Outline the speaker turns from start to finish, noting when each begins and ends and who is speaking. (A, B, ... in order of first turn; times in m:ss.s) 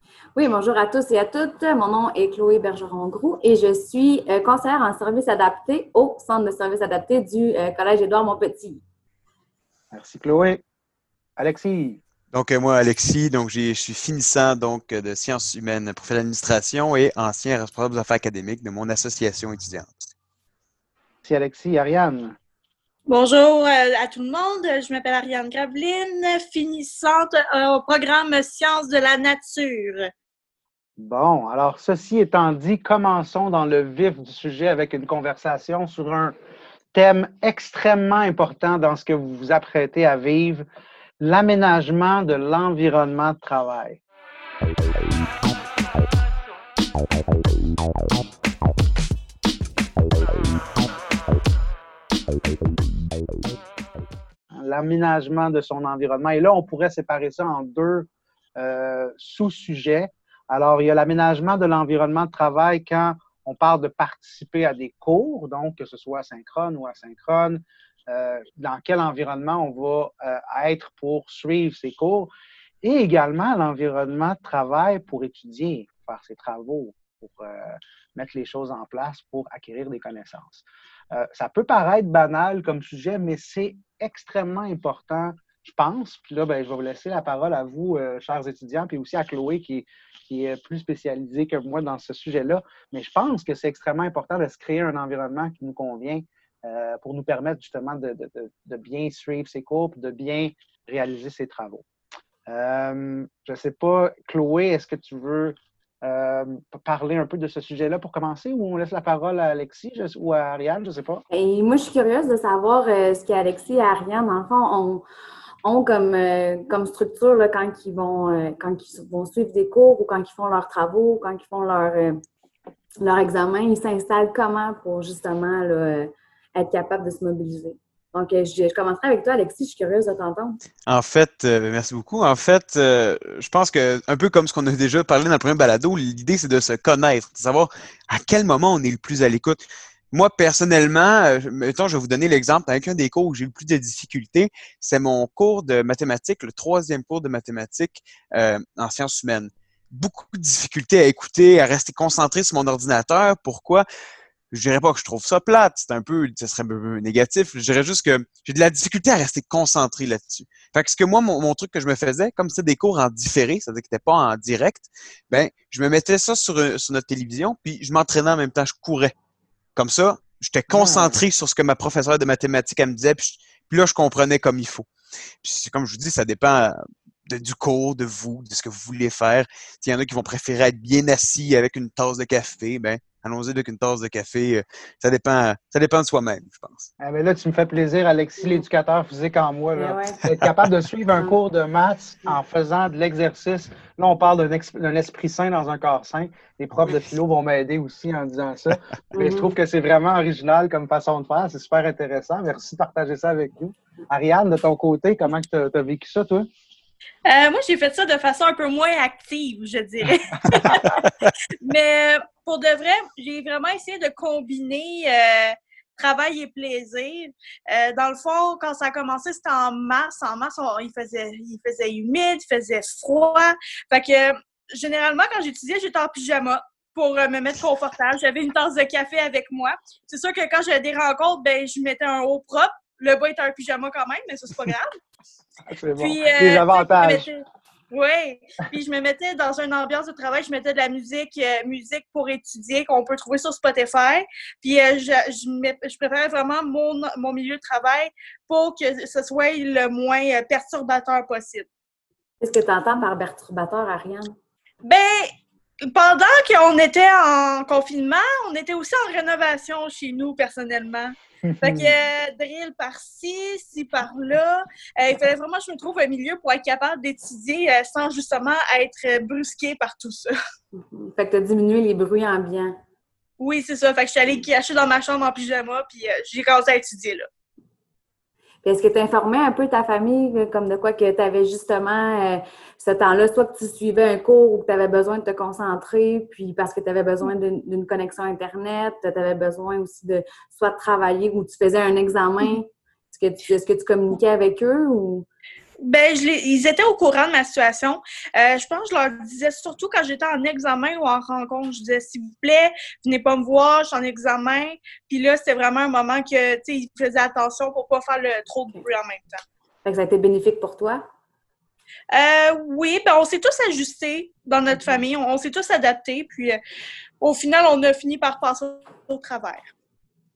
0:00.3-0:08.8 A
0:09.9-0:10.6 B
0:11.4-0:12.0 B
0:12.3-0:20.0 C
0:21.2-0:22.4 B
0:23.1-0:30.0 D
0:31.0-0:36.3 B
0:36.9-0:40.6 B
0:41.2-0:44.0 B
0:54.5-1:12.3 B
1:12.8-1:41.8 B
1:42.5-1:51.2 B
1:51.3-1:55.0 A
1:55.6-2:02.2 A
2:03.0-2:10.6 A
2:10.8-2:33.8 C
2:34.5-2:49.1 C
2:49.8-2:54.9 C
2:50.7-2:51.2 B
2:55.4-3:06.9 C
3:07.0-3:26.5 B
3:09.8-3:10.2 A
3:16.7-3:17.0 C
3:19.1-3:19.5 A
3:27.3-3:31.0 D
3:31.6-3:54.9 D
3:55.7-3:57.2 B
3:56.0-4:11.6 D
4:12.4-4:14.3 A
4:14.8-4:15.2 D
4:15.9-4:30.3 D
4:21.4-4:21.9 B
4:30.7-4:32.8 A
4:33.4-4:37.2 D
4:38.6-4:55.3 A
4:55.8-5:09.4 D
5:09.8-5:11.0 A
5:12.1-5:16.6 D
5:17.2-5:19.7 D